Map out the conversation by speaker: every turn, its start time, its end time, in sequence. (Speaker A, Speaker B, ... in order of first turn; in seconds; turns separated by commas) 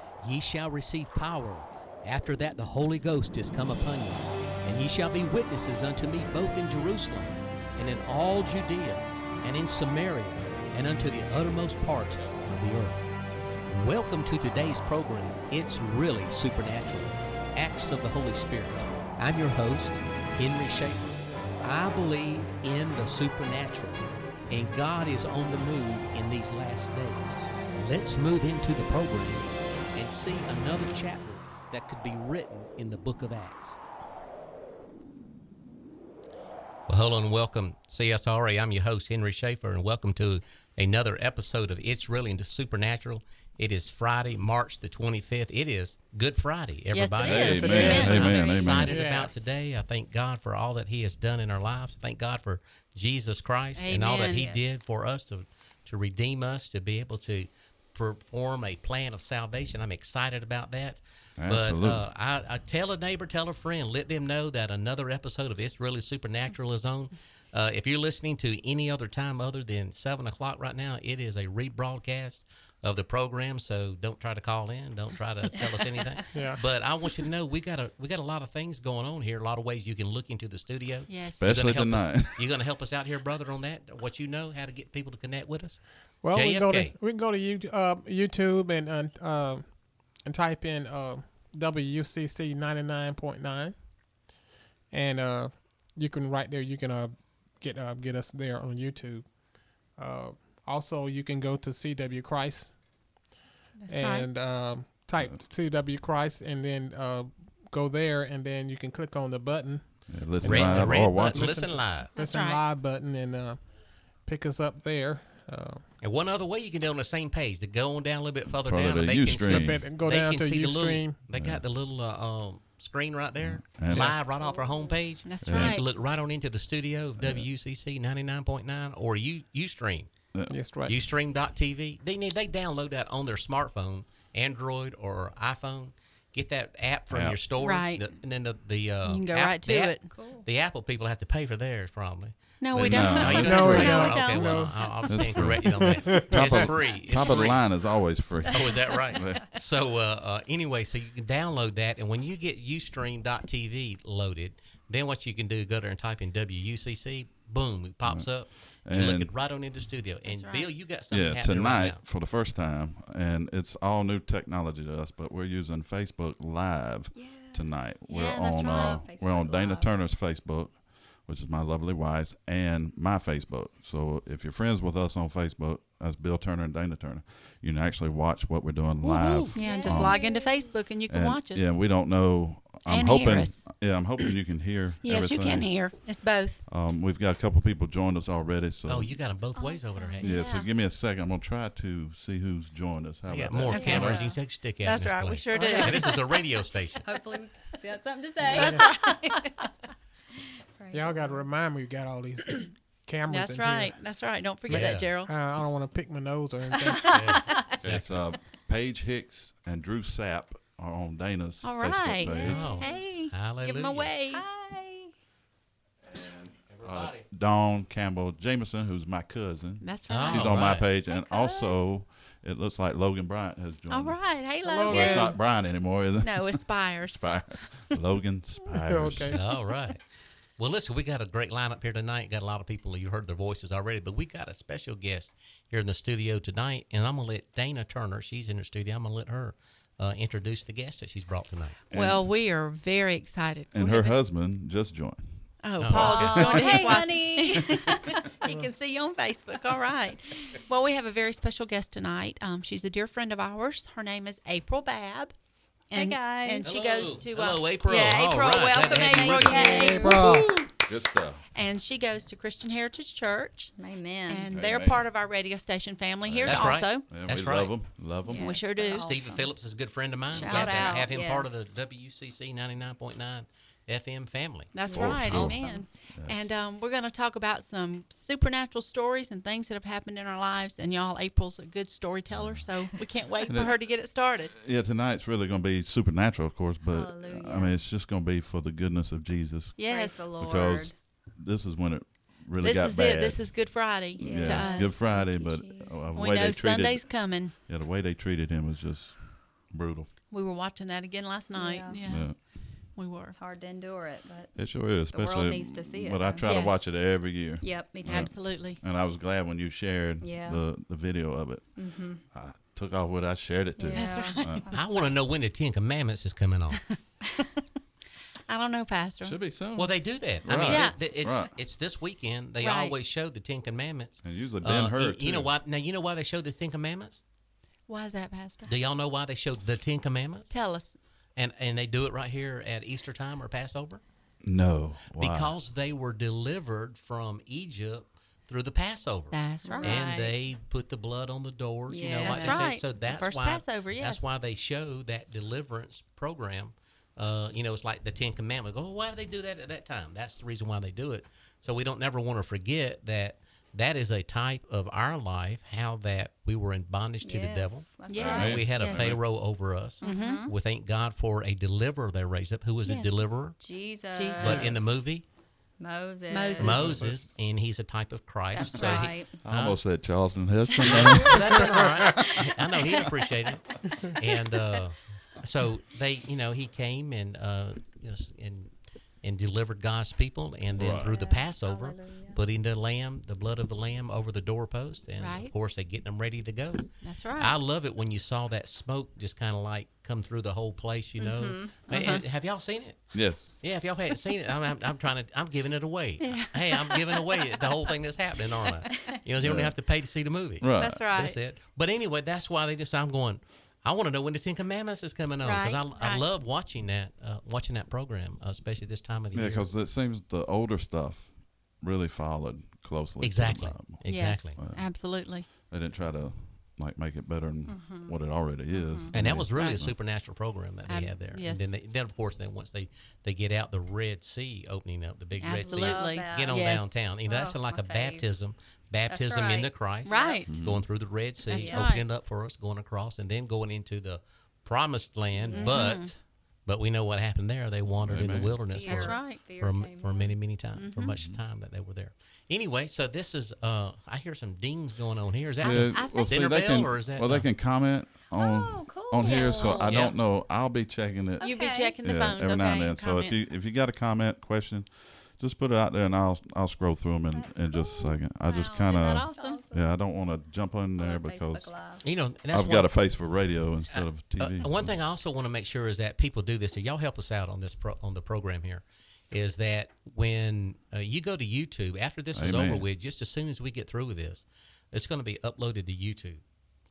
Speaker A: 0.2-13.1, Speaker A: 13.7-33.8, Speaker A: 36.9-87.0, Speaker B: 46.9-48.7, Speaker C: 47.2-49.1, Speaker D: 47.5-49.4, Speaker E: 47.8-49.4, Speaker B: 53.8-54.9, Speaker C: 61.4-62.1, Speaker E: 75.6-76.5, Speaker D: 76.3-76.6, Speaker B: 81.1-81.5, Speaker C: 81.4-82.5, Speaker D: 86.2-94.2, Speaker D: 94.9-103.3, Speaker B: 103.8-104.3, Speaker D: 103.9-115.8, Speaker C: 105.2-105.4, Speaker C: 110.1-111.7, Speaker A: 110.4-112.1, Speaker B: 112.1-112.7, Speaker A: 116.0-130.1, Speaker C: 118.6-119.9, Speaker D: 119.3-121.2, Speaker C: 121.3-121.6, Speaker C: 123.4-124.2, Speaker E: 124.2-125.0, Speaker B: 125.2-125.9, Speaker C: 125.4-125.8, Speaker C: 127.2-127.5, Speaker C: 130.3-130.7, Speaker D: 130.5-130.9, Speaker A: 130.8-147.8, Speaker C: 137.1-137.4, Speaker B: 137.6-138.1, Speaker B: 139.1-140.1, Speaker E: 140.1-140.4, Speaker B: 142.6-144.7, Speaker C: 142.8-144.2, Speaker D: 143.2-146.8, Speaker C: 145.1-149.5, Speaker A: 148.5-162.0, Speaker E: 148.9-149.4, Speaker C: 158.1-159.3, Speaker B: 160.3-160.7, Speaker C: 161.1-180.2, Speaker E: 167.1-167.7, Speaker B: 168.1-169.0, Speaker E: 168.3-170.0, Speaker A: 179.0-179.6, Speaker B: 179.5-181.7, Speaker E: 179.6-180.8, Speaker C: 181.1-186.0, Speaker B: 182.9-184.3, Speaker B: 185.0-186.6, Speaker C: 186.7-189.2, Speaker A: 188.9-190.3, Speaker E: 189.6-190.2, Speaker B: 190.2-190.7, Speaker C: 190.2-194.2, Speaker A: 193.3-197.1, Speaker B: 193.7-196.4, Speaker E: 193.7-194.3, Speaker E: 195.5-196.2, Speaker E: 197.0-199.5, Speaker B: 198.5-199.7, Speaker D: 198.5-198.8, Speaker E: 200.8-201.5, Speaker D: 200.9-204.0, Speaker B: 203.3-205.3, Speaker A: 204.7-205.1, Speaker D: 204.7-207.6, Speaker E: 206.9-207.6, Speaker B: 207.1-207.8, Speaker A: 207.1-208.3, Speaker C: 207.8-212.7, Speaker B: 211.6-214.4, Speaker E: 212.2-213.0, Speaker A: 212.4-214.1, Speaker E: 214.3-215.1, Speaker C: 216.0-229.4, Speaker A: 216.7-217.3, Speaker B: 219.8-221.8, Speaker A: 220.1-220.9, Speaker E: 221.4-221.8, Speaker B: 223.9-227.8, Speaker D: 224.6-225.4, Speaker D: 228.8-229.4, Speaker A: 229.3-230.0, Speaker A: 230.6-241.8, Speaker C: 241.9-242.3, Speaker B: 241.9-244.2, Speaker C: 243.7-247.2, Speaker B: 245.6-260.7, Speaker A: 245.8-247.0, Speaker E: 245.9-248.2, Speaker E: 255.9-256.7, Speaker A: 256.6-259.7, Speaker E: 258.8-260.2, Speaker D: 259.6-260.6, Speaker C: 260.9-261.4, Speaker B: 261.5-263.8, Speaker E: 263.8-264.5, Speaker B: 264.3-267.1, Speaker C: 264.5-265.0, Speaker C: 266.2-268.7, Speaker A: 266.4-267.8, Speaker E: 268.3-269.5, Speaker B: 268.3-269.1, Speaker A: 268.9-274.7, Speaker B: 270.3-271.1, Speaker E: 270.4-271.7, Speaker B: 274.7-284.5, Speaker E: 274.8-275.9, Speaker C: 274.9-276.4, Speaker C: 282.3-300.1, Speaker E: 286.9-287.8, Speaker B: 289.8-290.3, Speaker E: 289.9-290.9, Speaker B: 292.6-295.0, Speaker E: 294.2-296.1, Speaker B: 296.1-297.5, Speaker B: 300.3-303.4, Speaker E: 301.6-302.0, Speaker C: 302.0-302.4, Speaker E: 303.3-306.8, Speaker C: 304.6-314.7, Speaker B: 306.4-306.9, Speaker E: 307.6-308.4, Speaker B: 308.1-308.8, Speaker E: 310.2-310.6, Speaker E: 311.8-312.2, Speaker E: 313.8-314.9, Speaker B: 313.9-315.0, Speaker A: 314.7-316.9, Speaker B: 318.5-319.4, Speaker C: 319.2-321.5, Speaker A: 319.8-327.2, Speaker B: 320.7-321.0, Speaker B: 322.6-323.0, Speaker C: 324.2-325.5, Speaker B: 327.9-328.7, Speaker A: 328.6-330.6, Speaker B: 330.5-331.0, Speaker A: 331.4-334.0, Speaker C: 334.4-335.6, Speaker A: 335.2-363.6, Speaker B: 339.3-340.3, Speaker E: 339.6-340.1, Speaker E: 341.9-342.9, Speaker B: 342.2-344.3, Speaker E: 357.2-358.9, Speaker B: 358.1-359.1, Speaker C: 358.1-359.2, Speaker E: 360.0-360.5, Speaker B: 360.0-360.4, Speaker E: 362.9-365.0, Speaker B: 364.1-365.0, Speaker A: 364.4-365.3, Speaker E: 365.8-366.9, Speaker B: 366.3-367.1, Speaker A: 366.6-369.9, Speaker C: 366.8-367.3, Speaker E: 368.5-369.3, Speaker B: 368.7-369.1, Speaker C: 369.3-371.7, Speaker A: 370.9-409.7, Speaker E: 372.1-373.1, Speaker E: 373.9-374.2, Speaker C: 380.8-381.1, Speaker E: 380.8-382.4, Speaker B: 385.2-385.5, Speaker B: 387.0-387.6, Speaker B: 391.2-392.2, Speaker E: 391.4-391.7, Speaker C: 393.1-393.6, Speaker B: 396.2-397.3, Speaker C: 399.4-399.8, Speaker C: 400.6-401.0, Speaker B: 400.8-401.4, Speaker B: 405.4-406.2, Speaker C: 409.3-419.9, Speaker A: 413.2-414.6, Speaker B: 414.0-415.5, Speaker E: 417.7-418.1, Speaker E: 418.7-419.1, Speaker A: 419.1-447.5, Speaker B: 420.9-421.7, Speaker B: 425.4-426.9, Speaker E: 425.6-426.7, Speaker E: 427.3-428.3, Speaker E: 429.1-430.4, Speaker B: 430.1-430.5, Speaker C: 430.5-430.9, Speaker B: 431.5-432.0, Speaker E: 431.6-431.9, Speaker E: 435.3-436.0, Speaker B: 435.5-436.1, Speaker C: 438.0-438.7, Speaker E: 438.7-440.4, Speaker B: 438.9-439.4, Speaker B: 440.8-441.1, Speaker C: 441.1-441.4, Speaker B: 445.6-446.6, Speaker C: 445.6-461.7, Speaker E: 448.3-450.0, Speaker B: 449.2-450.0, Speaker A: 449.8-450.1, Speaker E: 451.4-452.0, Speaker B: 451.4-453.4, Speaker E: 457.3-459.9, Speaker B: 458.9-459.6, Speaker E: 461.0-462.0, Speaker A: 462.0-463.0, Speaker C: 462.5-464.9, Speaker A: 463.9-476.4, Speaker C: 472.3-472.9